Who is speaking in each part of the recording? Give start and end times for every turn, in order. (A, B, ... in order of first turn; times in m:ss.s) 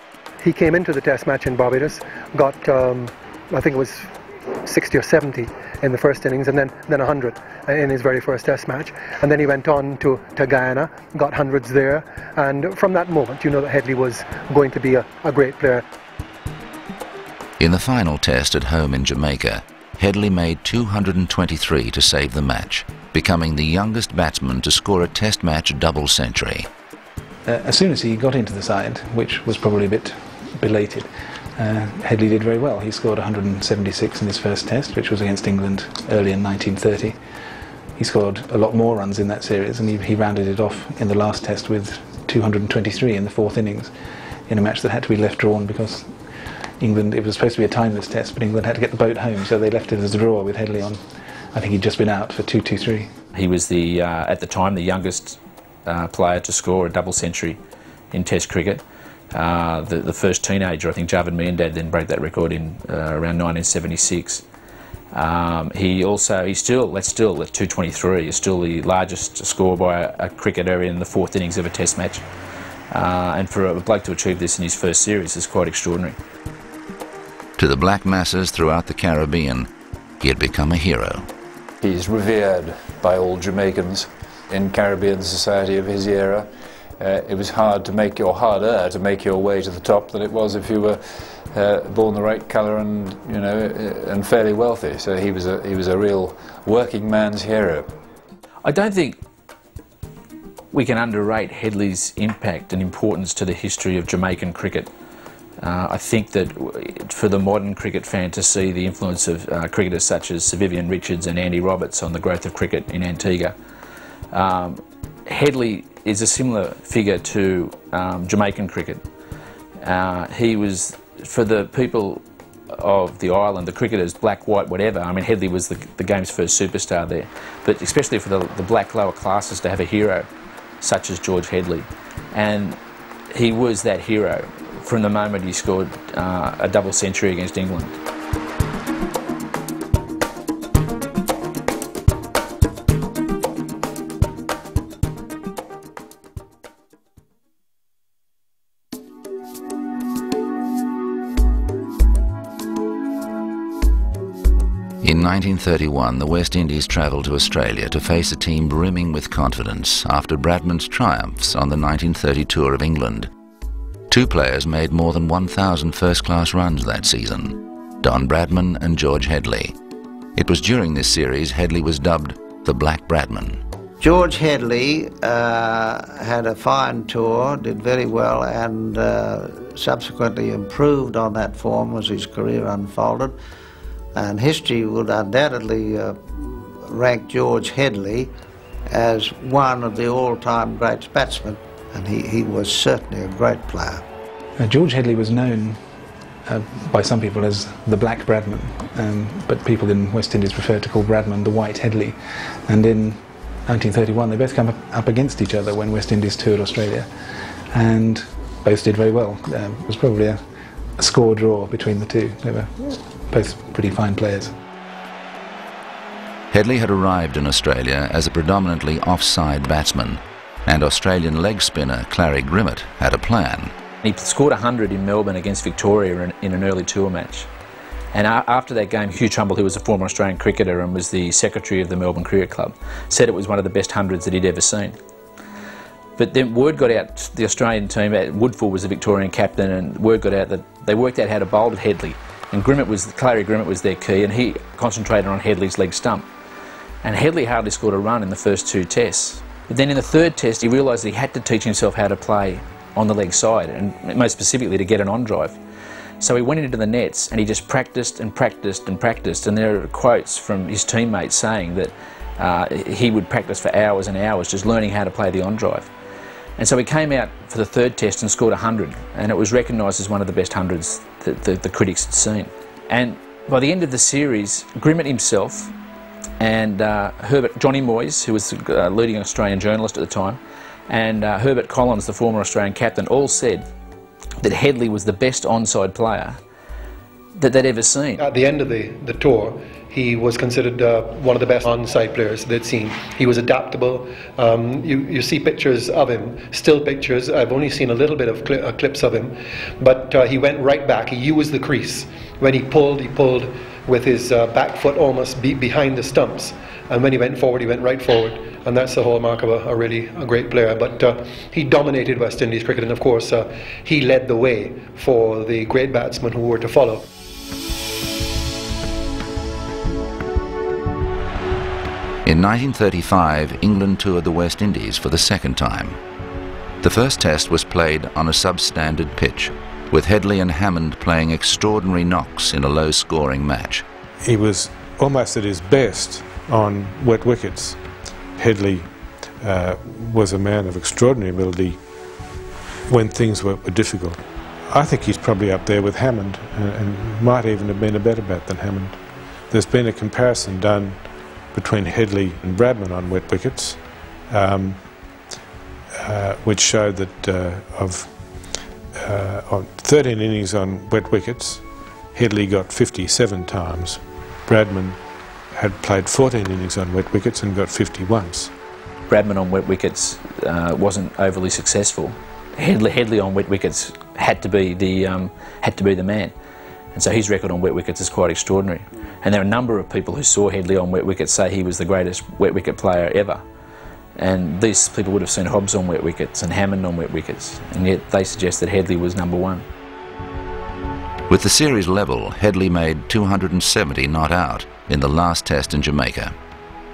0:00.4-0:15.8 A
0:17.6-0:26.7 B
0:27.4-0:37.2 C
0:38.0-0:43.9 C
0:44.5-0:46.2 C
0:46.8-0:51.0 C
0:51.5-0:53.1 C
0:53.3-0:57.6 D
0:58.1-1:04.4 D
1:05.1-1:12.2 D
1:12.9-1:16.2 D
1:17.6-1:19.7 B
1:20.2-1:21.3 B
1:21.8-1:37.9 E
1:38.6-1:39.2 D
1:40.7-1:44.9 D
1:45.6-1:53.6 D
1:54.3-1:59.0 D
1:59.8-2:10.3 D
2:10.8-2:12.8 D
2:13.3-2:18.0 D
2:35.0-2:43.3 B
2:44.1-2:49.8 B
2:50.4-2:53.6 B
2:54.0-3:03.3 F
3:04.2-3:08.3 F
3:08.9-3:14.0 F
3:14.6-3:15.9 C
3:16.4-3:30.4 C
3:31.0-3:34.5 C
3:36.5-3:43.7 B
3:44.0-3:47.5 D
3:48.1-3:55.0 D
3:56.2-4:06.2 D
4:07.0-4:15.6 D
4:16.2-4:25.9 D
4:26.6-4:35.7 D
4:36.4-4:43.6 D
4:44.4-4:46.4 D
4:47.4-4:48.2 D
4:48.2-5:17.1 A
5:22.2-5:26.0 B
5:26.8-5:33.8 B
5:34.2-5:37.8 G
5:38.3-5:42.3 G
5:42.9-5:55.0 G
5:56.0-6:08.5 G
6:09.1-6:16.3 D
6:16.9-6:23.4 D
6:24.2-6:29.6 D
6:31.3-6:36.3 B